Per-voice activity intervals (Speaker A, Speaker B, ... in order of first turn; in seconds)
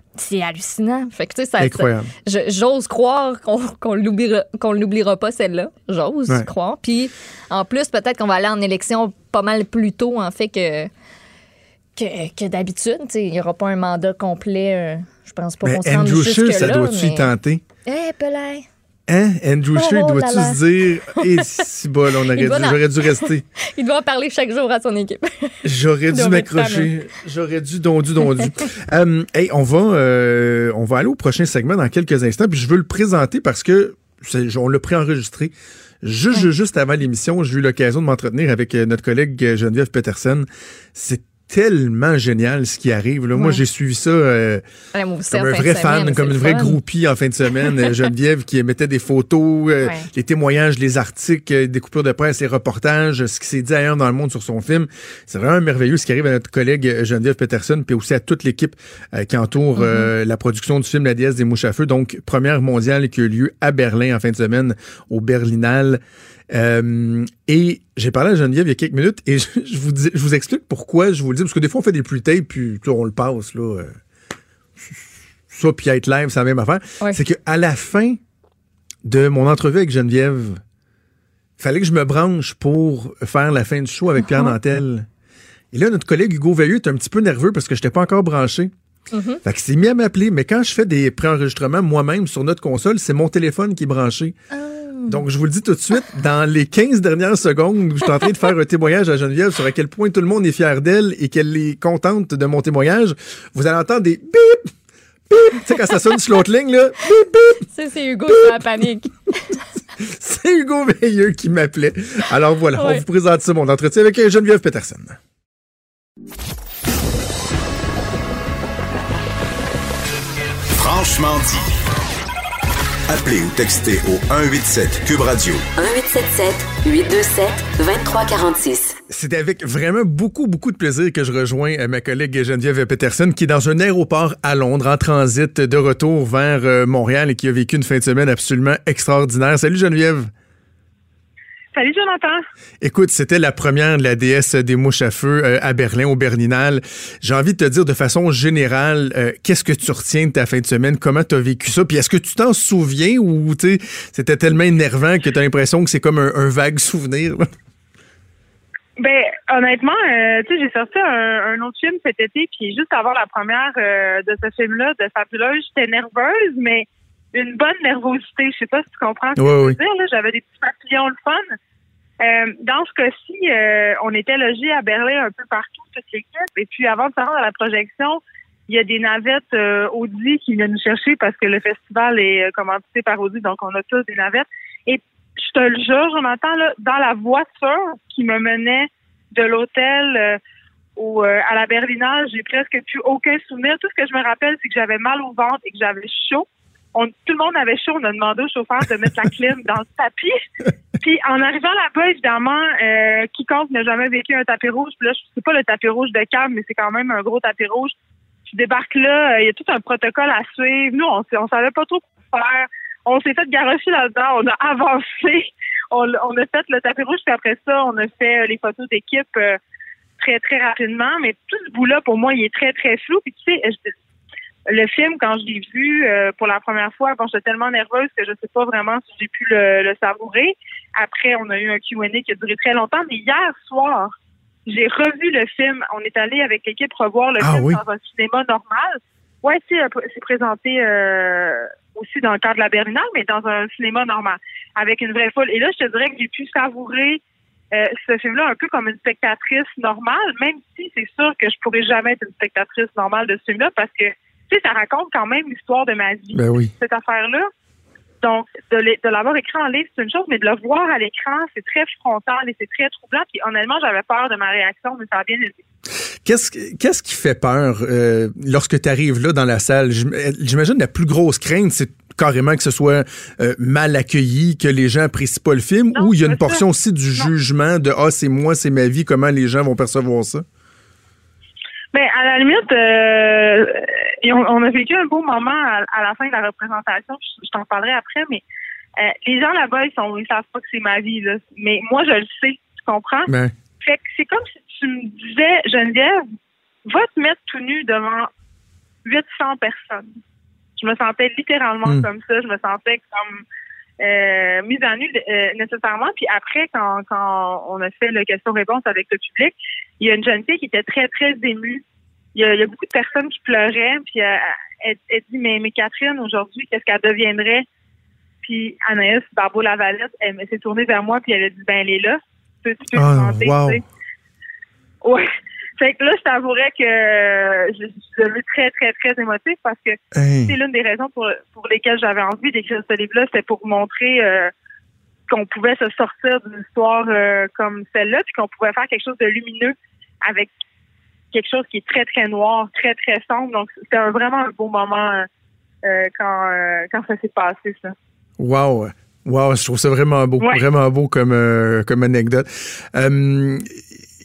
Speaker A: 0.2-10.9, 11.9-17.3, 17.9-18.6, 19.7-20.6, 21.2-21.6, 22.3-25.6, 26.1-26.9, 28.2-28.5, 43.3-43.6, 44.9-46.8, 49.8-50.1, 59.8-60.1, 84.2-84.5, 89.1-89.4, 94.5-95.2, 107.7-109.6, 112.8-113.0
Speaker B: 1.6-2.1, 15.6-17.6, 19.1-23.4, 25.6-44.6, 45.3-73.9, 74.8-78.2, 79.0-80.6, 81.6-85.0, 85.7-88.7, 89.4-94.3, 95.1-104.7, 105.3-107.6, 108.3-108.6, 110.0-115.2, 129.1-140.3, 142.8-157.5, 169.4-169.8, 237.4-237.8, 256.3-256.7, 266.2-280.4, 293.3-293.5, 322.9-323.8, 330.1-330.5, 348.4-353.8
Speaker C: 120.8-121.7, 123.1-125.6
Speaker D: 125.8-128.9
Speaker E: 141.7-142.4, 159.0-171.4, 172.2-190.4, 191.0-200.4, 201.0-207.9, 208.5-219.6, 220.2-223.9, 224.7-234.1, 234.7-247.2, 247.7-257.5, 258.2-265.6, 275.9-276.6, 281.9-288.4, 289.0-296.2, 296.9-298.3, 299.0-300.1, 300.8-303.4, 304.0-311.8, 312.3-317.6, 318.4-323.8, 325.8-334.5, 335.3-340.5, 341.3-345.3, 345.8-347.9